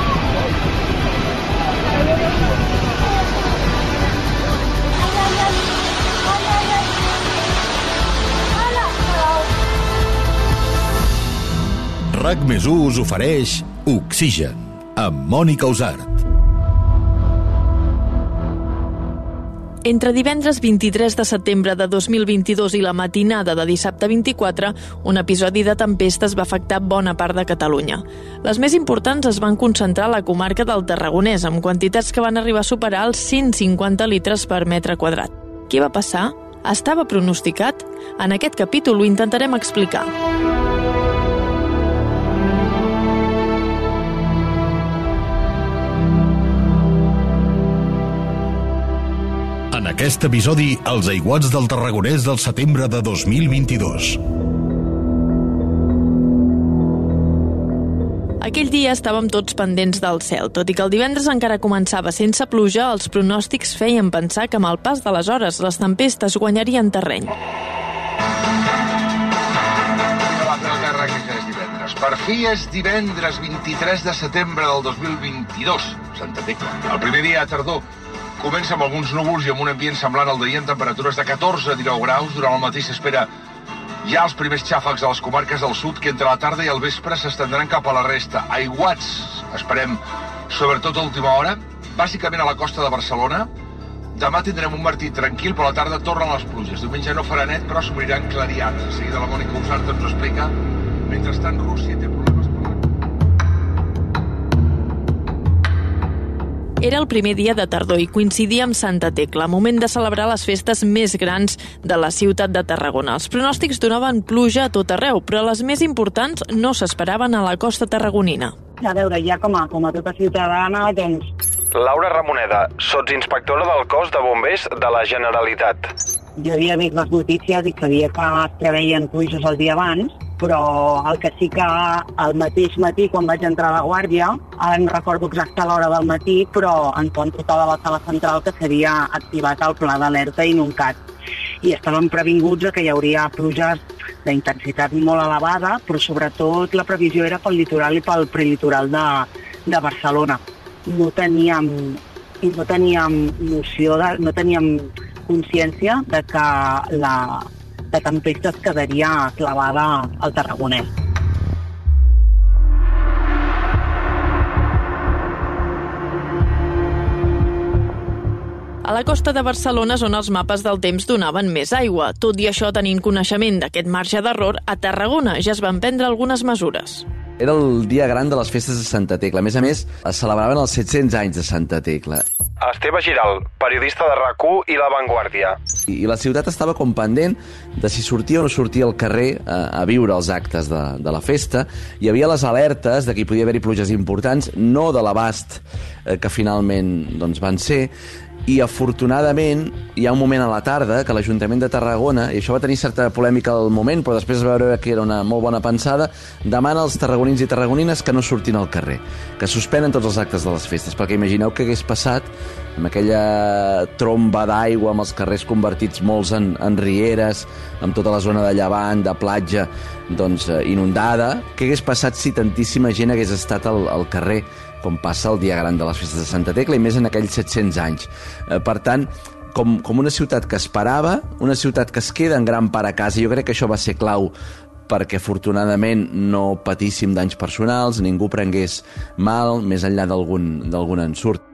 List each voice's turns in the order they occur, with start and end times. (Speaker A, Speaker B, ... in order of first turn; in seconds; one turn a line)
Speaker A: 12.1-16.2
Speaker B: 19.8-40.1
Speaker A: 49.7-54.2
Speaker B: 58.4-67.3
Speaker C: 70.2-77.8
Speaker C: 78.4-83.3
Speaker C: 84.0-93.5
Speaker C: 94.1-102.8
Speaker B: 106.8-118.5
Speaker D: 118.8-121.3
Speaker E: 121.7-125.9
Speaker D: 126.3-141.0
Speaker D: 141.6-160.9
Speaker B: 168.8-177.1
Speaker F: 177.4-182.2
Speaker E: 182.6-185.6
Speaker F: 185.9-197.9
Speaker F: 198.4-234.3
Speaker F: 234.9-241.4